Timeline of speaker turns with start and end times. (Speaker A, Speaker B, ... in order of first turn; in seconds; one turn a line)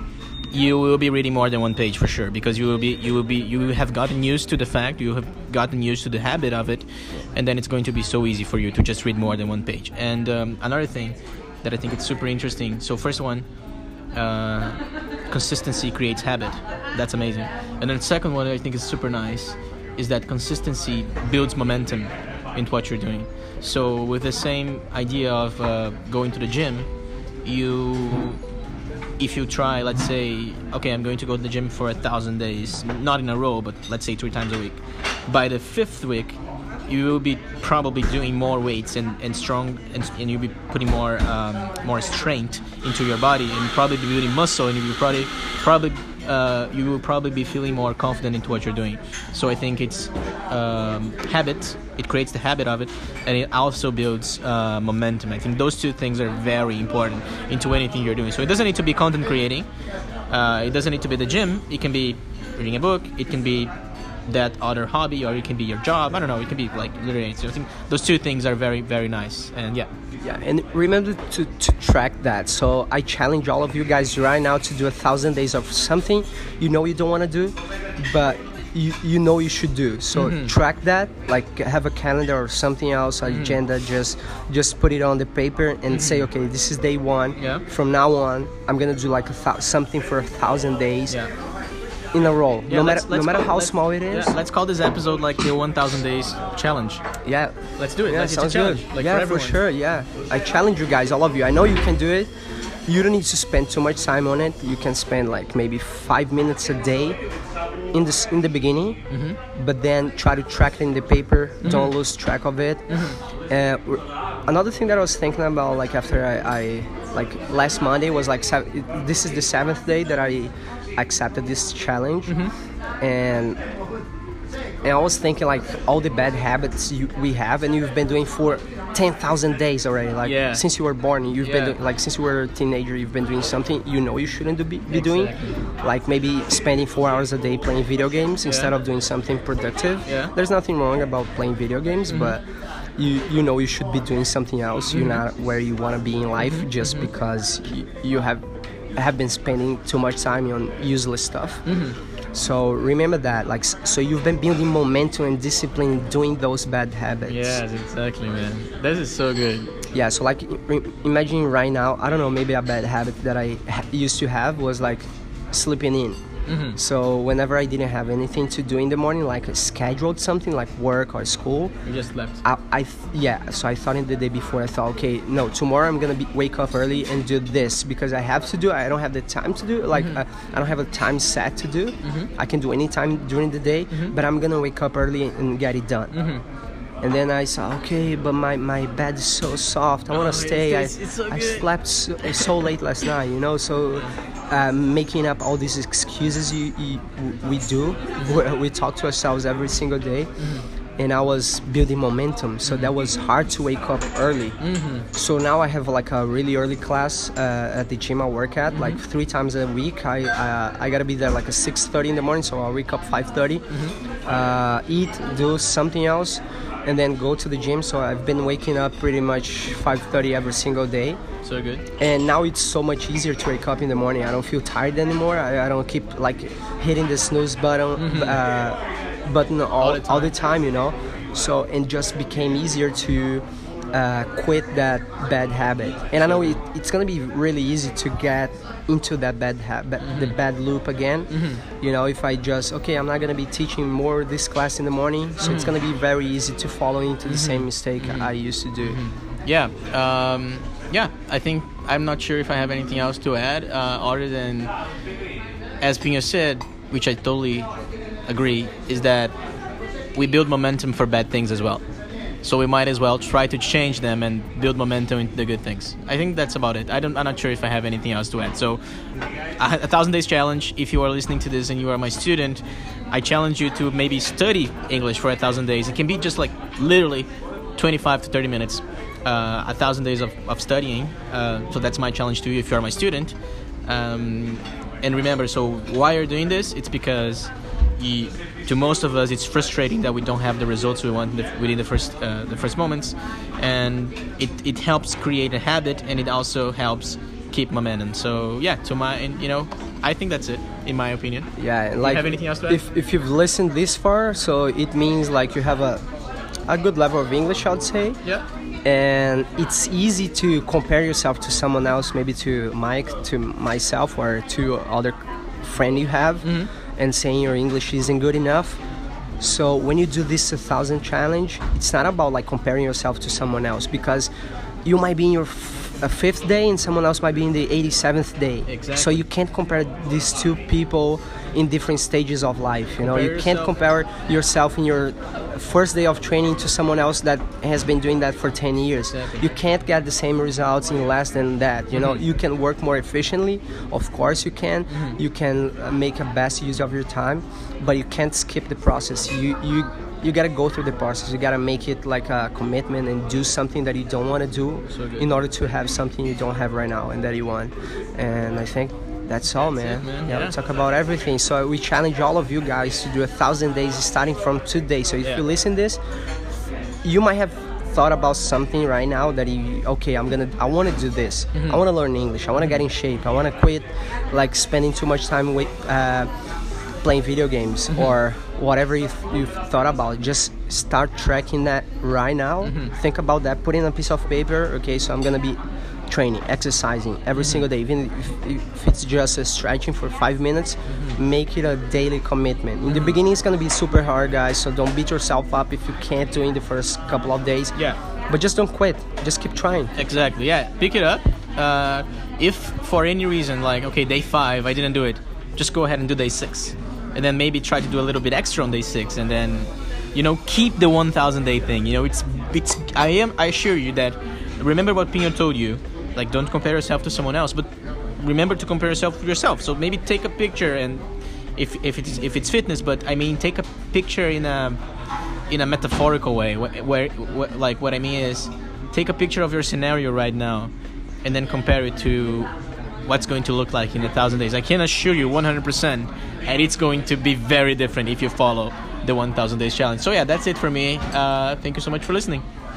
Speaker A: 0.5-13.4
Speaker A: 14.1-14.8
Speaker A: 15.3-26.9
Speaker A: 27.4-28.4
Speaker A: 29.2-36.4
Speaker A: 36.9-59.7
Speaker A: 60.3-63.7
Speaker A: 64.3-69.9
Speaker B: 70.2-91.2
Speaker A: 80.1-80.5
Speaker A: 83.2-83.6
Speaker A: 85.9-86.3
Speaker A: 87.4-87.6
Speaker B: 92.1-94.3
Speaker A: 92.7-97.0
Speaker B: 97.2-97.5
Speaker A: 97.8-99.6
Speaker B: 98.0-102.3
Speaker B: 102.9-107.2
Speaker B: 107.9-109.0
Speaker A: 109.1-109.4
Speaker B: 109.5-112.9
Speaker A: 111.6-112.0
Speaker A: 112.9-113.2
Speaker B: 113.5-122.4
Speaker A: 122.3-122.5
Speaker B: 123.0-123.6
Speaker B: 124.8-142.4
Speaker A: 130.2-130.6
Speaker A: 131.4-131.8
Speaker A: 134.9-135.6
Speaker A: 140.1-140.3
Speaker A: 142.1-142.3
Speaker B: 143.0-148.4
Speaker A: 144.9-145.2
Speaker A: 146.4-147.1
Speaker B: 149.0-151.6
Speaker A: 151.7-152.0
Speaker B: 152.3-157.6
Speaker A: 157.3-159.8
Speaker B: 159.9-166.2
Speaker A: 166.5-166.8
Speaker B: 166.7-171.7
Speaker A: 171.8-172.4
Speaker B: 172.4-186.1
Speaker A: 182.0-182.3
Speaker A: 186.1-186.4
Speaker B: 187.0-200.3
Speaker A: 190.1-191.7
Speaker A: 192.2-192.5
Speaker A: 200.4-200.6
Speaker B: 201.0-204.6
Speaker A: 202.6-202.9
Speaker A: 204.6-205.1
Speaker B: 205.1-213.7
Speaker A: 208.7-209.0
Speaker A: 213.7-213.9
Speaker B: 214.3-221.2
Speaker A: 221.4-221.8
Speaker B: 222.0-249.0
Speaker A: 228.0-228.4
Speaker A: 229.8-230.3
Speaker A: 236.3-236.6
Speaker A: 240.0-240.3
Speaker A: 241.3-241.6
Speaker A: 245.4-245.7
Speaker A: 247.3-248.3
Speaker A: 248.8-254.7
Speaker A: 255.8-257.7
Speaker A: 258.3-259.4
Speaker A: 260.1-261.8
Speaker A: 262.4-268.8
Speaker A: 269.6-283.3
Speaker A: 283.9-302.8
Speaker B: 301.6-306.0
Speaker B: 306.7-308.2
Speaker B: 308.8-318.8
Speaker A: 316.4-316.7
Speaker B: 319.4-324.3
Speaker B: 324.8-366.0
Speaker A: 328.7-329.2
Speaker A: 333.0-333.8
Speaker A: 339.1-339.5
Speaker A: 341.9-342.2
Speaker A: 344.9-345.2
Speaker A: 354.9-355.3
Speaker A: 359.8-360.6
Speaker B: 367.0-376.3
Speaker A: 371.5-371.8
Speaker B: 377.0-385.6
Speaker A: 382.6-382.9
Speaker B: 386.1-397.8
Speaker A: 387.4-387.6
Speaker A: 390.9-391.2
Speaker A: 392.9-393.1
Speaker B: 398.3-399.9
Speaker A: 399.9-421.0
Speaker A: 421.6-424.8
Speaker A: 425.5-430.7
Speaker A: 431.2-432.5
Speaker A: 433.1-442.4